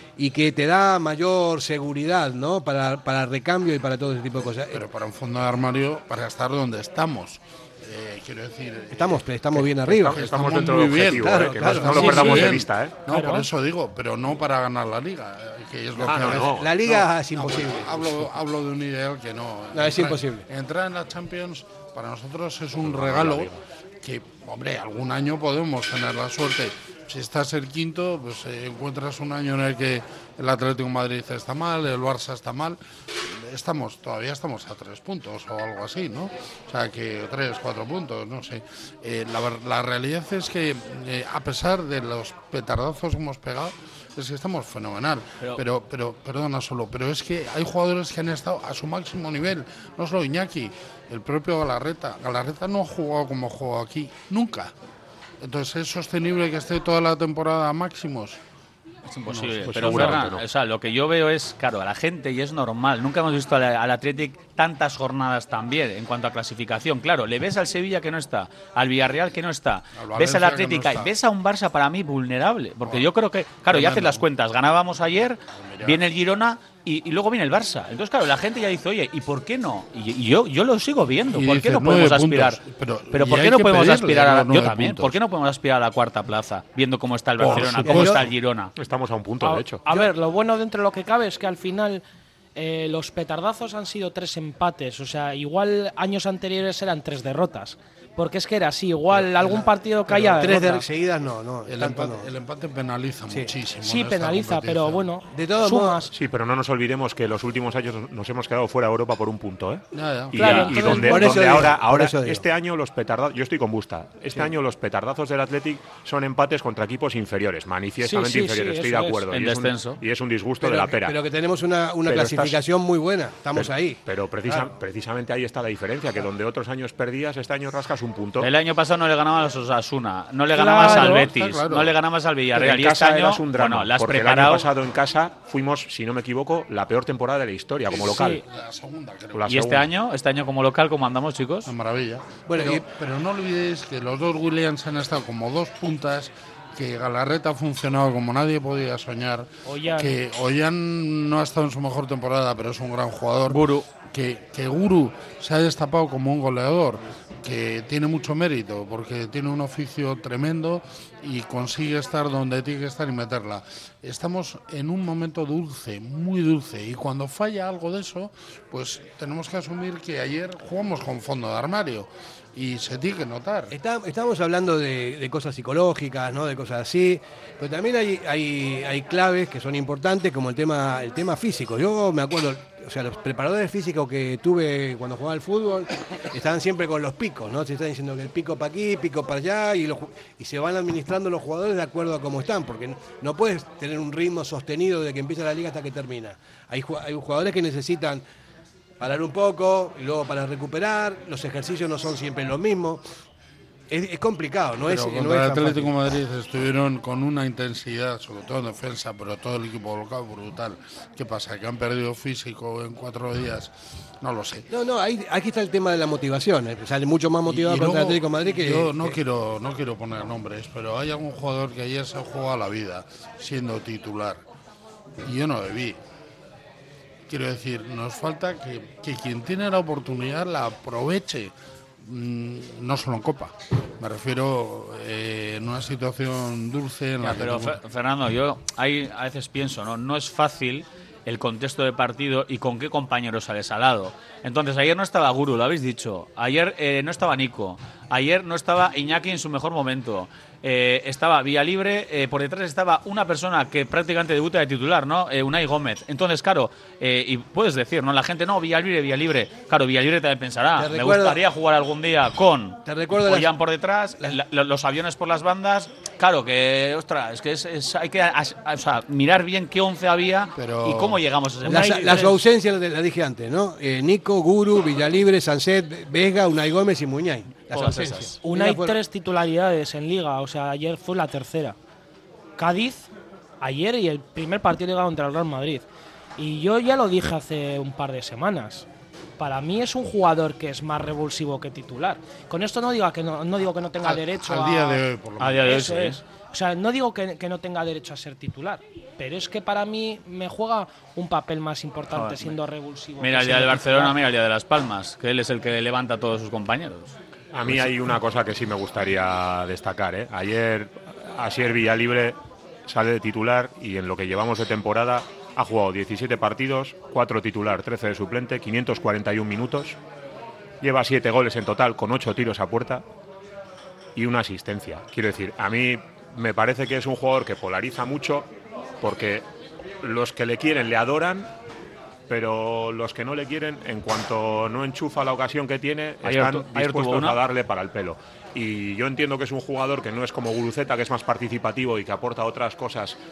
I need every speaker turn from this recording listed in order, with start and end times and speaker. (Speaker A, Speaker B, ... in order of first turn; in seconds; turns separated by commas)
Speaker A: 0.2-4.8, Speaker B: 4.7-54.7, Speaker A: 8.9-10.2, Speaker C: 9.9-13.0, Speaker A: 11.1-12.6, Speaker D: 13.1-13.5, Speaker C: 16.0-16.9, Speaker A: 16.1-18.3, Speaker A: 19.7-20.4, Speaker C: 22.8-23.6, Speaker B: 55.4-58.4, Speaker E: 59.1-82.6, Speaker B: 59.4-60.2, Speaker C: 59.7-60.4, Speaker B: 69.9-71.1, Speaker B: 72.8-73.1, Speaker B: 73.7-74.2, Speaker B: 75.5-76.0, Speaker B: 81.3-85.2, Speaker E: 83.1-88.7, Speaker B: 87.4-88.2, Speaker A: 87.5-88.2, Speaker C: 88.8-89.8, Speaker D: 89.4-92.0, Speaker D: 92.6-100.9, Speaker A: 99.2-102.3, Speaker B: 101.7-105.1, Speaker D: 103.8-106.1, Speaker A: 105.3-106.1, Speaker C: 106.1-121.2, Speaker B: 109.9-111.0, Speaker D: 110.4-111.4, Speaker E: 110.4-110.7, Speaker A: 110.9-112.5, Speaker D: 118.0-119.2, Speaker E: 119.3-120.0, Speaker A: 120.6-124.7, Speaker C: 122.1-122.6, Speaker C: 123.5-128.5, Speaker E: 128.4-134.7, Speaker D: 130.5-131.3, Speaker B: 130.8-132.0, Speaker C: 132.5-138.4, Speaker B: 137.9-139.7, Speaker D: 138.1-138.4, Speaker C: 139.3-139.9, Speaker E: 139.5-141.7, Speaker B: 141.7-173.8, Speaker A: 142.5-142.8, Speaker D: 149.7-150.1, Speaker E: 153.5-153.9, Speaker A: 173.7-198.2, Speaker A: 199.0-203.0, Speaker A: 203.9-205.9, Speaker B: 204.8-214.7, Speaker A: 214.7-219.2, Speaker B: 217.4-224.4, Speaker B: 225.2-226.0, Speaker B: 227.3-237.8, Speaker E: 237.2-272.3, Speaker A: 260.8-261.4, Speaker A: 262.9-263.5, Speaker B: 270.6-271.2, Speaker A: 271.7-279.0, Speaker D: 271.7-272.4, Speaker E: 277.7-278.4, Speaker D: 278.4-281.8, Speaker D: 282.6-283.1, Speaker D: 283.6-285.9, Speaker D: 286.4-288.9, Speaker D: 289.4-295.0, Speaker B: 294.0-295.8, Speaker E: 295.4-296.2, Speaker D: 295.6-304.2, Speaker E: 302.1-302.6, Speaker E: 303.2-307.1, Speaker C: 307.5-320.0, Speaker C: 320.8-323.0, Speaker C: 324.2-328.5, Speaker C: 329.0-329.4, Speaker C: 330.0-331.5, Speaker C: 332.3-343.2, Speaker E: 336.2-337.4